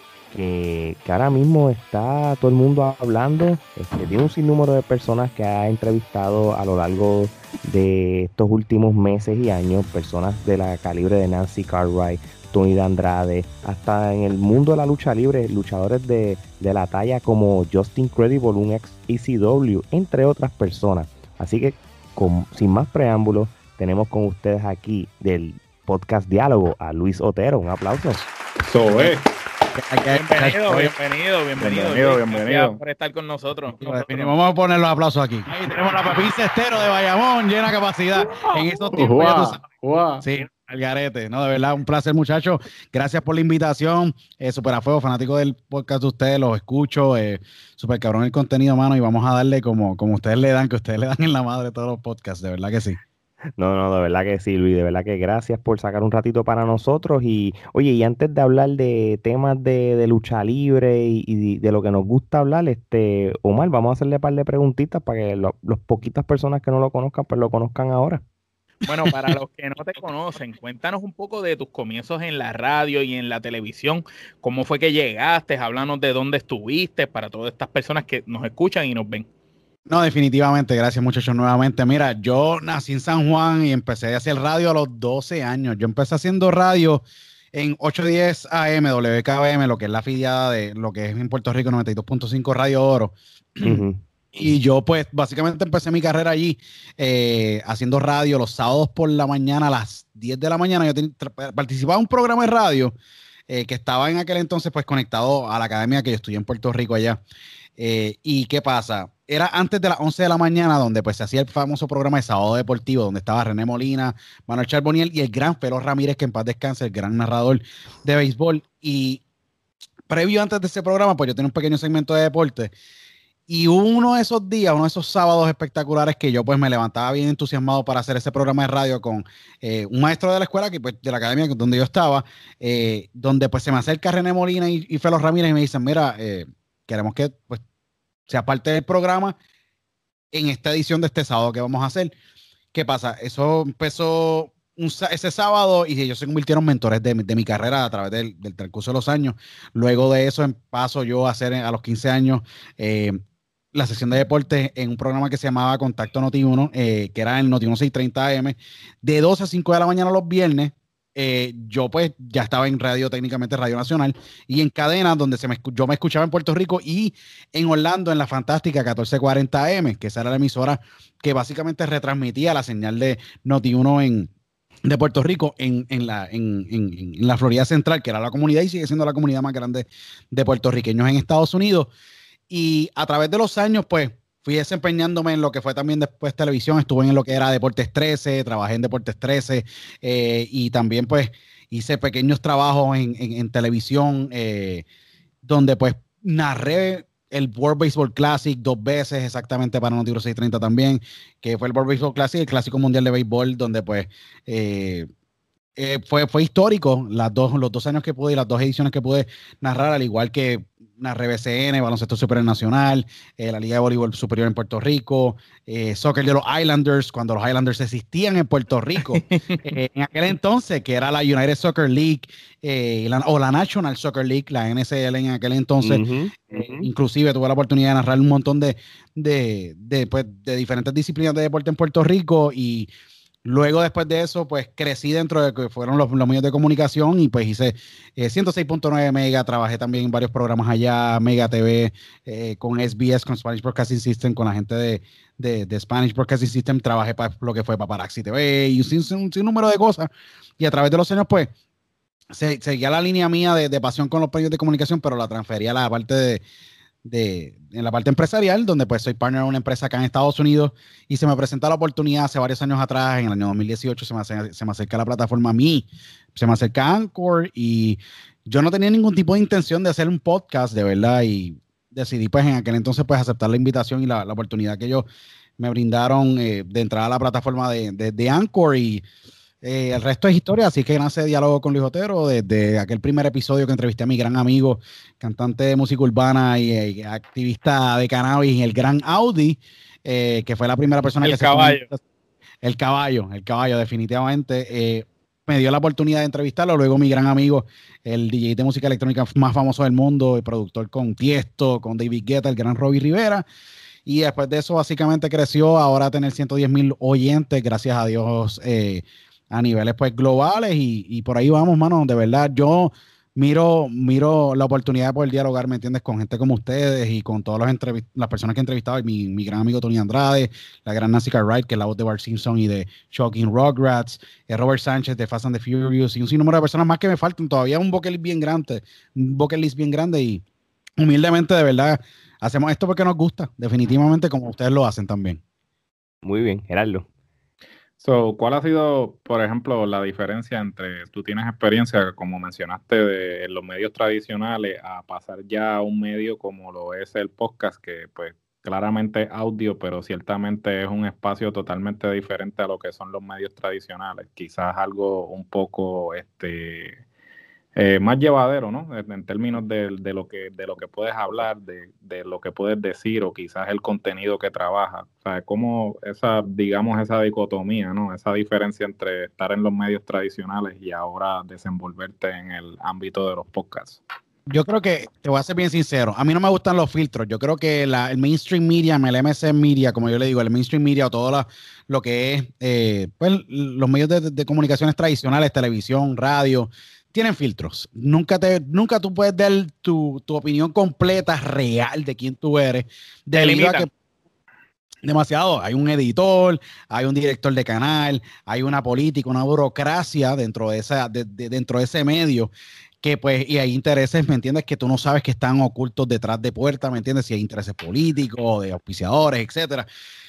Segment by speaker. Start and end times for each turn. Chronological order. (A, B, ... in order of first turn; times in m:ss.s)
0:00.3-0:28.2 A
0:28.6-0:29.3 B
0:29.7-0:30.6 C
0:30.1-0:34.2 D
0:30.7-0:30.9 B
0:31.6-0:32.8 B
0:33.8-0:39.6 C
0:38.2-0:40.2 B
0:40.2-0:53.0 C
0:53.6-1:08.2 A
1:08.8-1:19.3 D
1:19.9-1:33.8 C
1:33.6-1:34.0 A
1:34.3-1:42.9 C
1:43.5-1:47.2 C
1:47.8-1:59.2 C
2:00.1-2:02.7 C
2:03.5-2:17.6 C
2:18.3-2:19.4 C
2:20.3-2:22.1 C
2:22.7-2:33.2 C
2:33.7-2:54.3 C
2:54.8-3:01.9 C
3:02.5-3:14.8 C
3:15.4-3:25.1 C
3:25.8-3:52.9 C
3:39.0-3:39.6 D
3:45.8-3:46.9 A
3:53.4-4:11.5 C
4:12.3-4:16.4 C
4:17.0-4:35.0 C
4:35.6-4:39.0 C
4:39.6-4:52.0 C
4:51.2-4:51.8 D
4:52.6-5:03.4 C
5:04.0-5:30.4 C
5:31.0-5:35.4 C
5:36.2-5:37.1 A
5:38.0-5:57.0 B
5:57.8-6:14.0 B
6:14.5-6:33.9 C
6:33.4-6:33.9 D
6:35.0-6:42.5 C
6:43.0-6:49.9 C